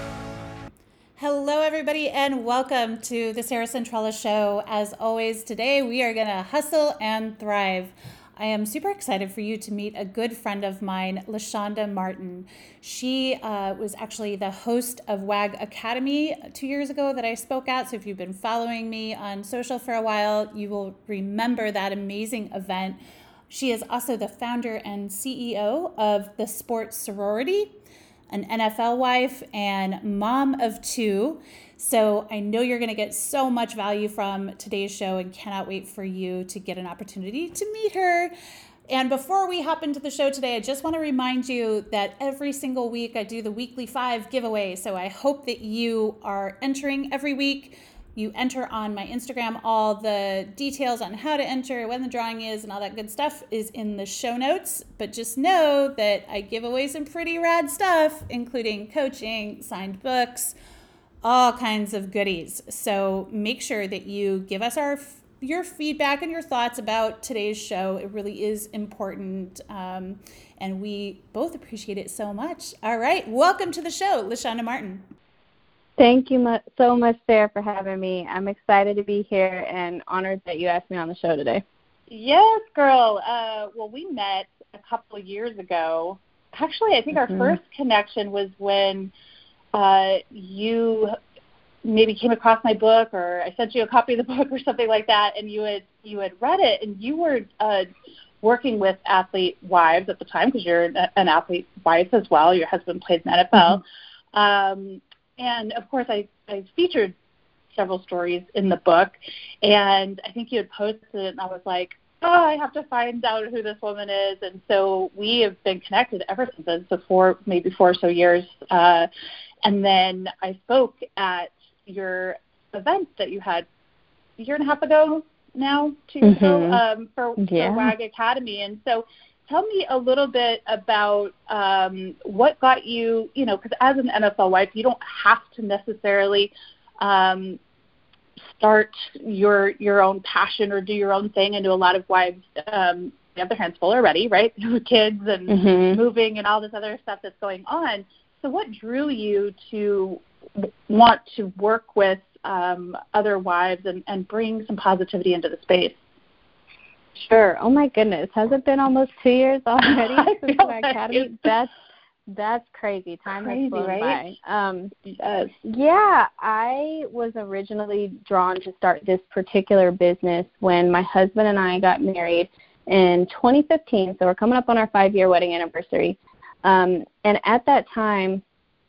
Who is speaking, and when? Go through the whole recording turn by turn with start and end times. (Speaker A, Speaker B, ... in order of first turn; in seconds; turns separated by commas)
Speaker A: 1.2-27.7, Speaker A: 28.3-38.3, Speaker A: 38.9-60.5, Speaker A: 61.2-75.0, Speaker B: 76.0-81.6, Speaker C: 82.1-89.1, Speaker B: 87.2-87.5, Speaker C: 89.7-91.2, Speaker C: 91.8-97.9, Speaker C: 98.4-107.1, Speaker B: 103.5-103.8, Speaker C: 107.7-119.1, Speaker C: 119.6-123.7, Speaker C: 124.4-137.6, Speaker B: 126.2-126.8, Speaker B: 127.4-127.9, Speaker C: 138.5-156.0, Speaker B: 145.5-146.0, Speaker B: 157.2-161.7, Speaker C: 159.8-161.5, Speaker B: 162.3-164.9, Speaker C: 163.4-164.3, Speaker C: 165.0-165.5, Speaker B: 165.6-178.4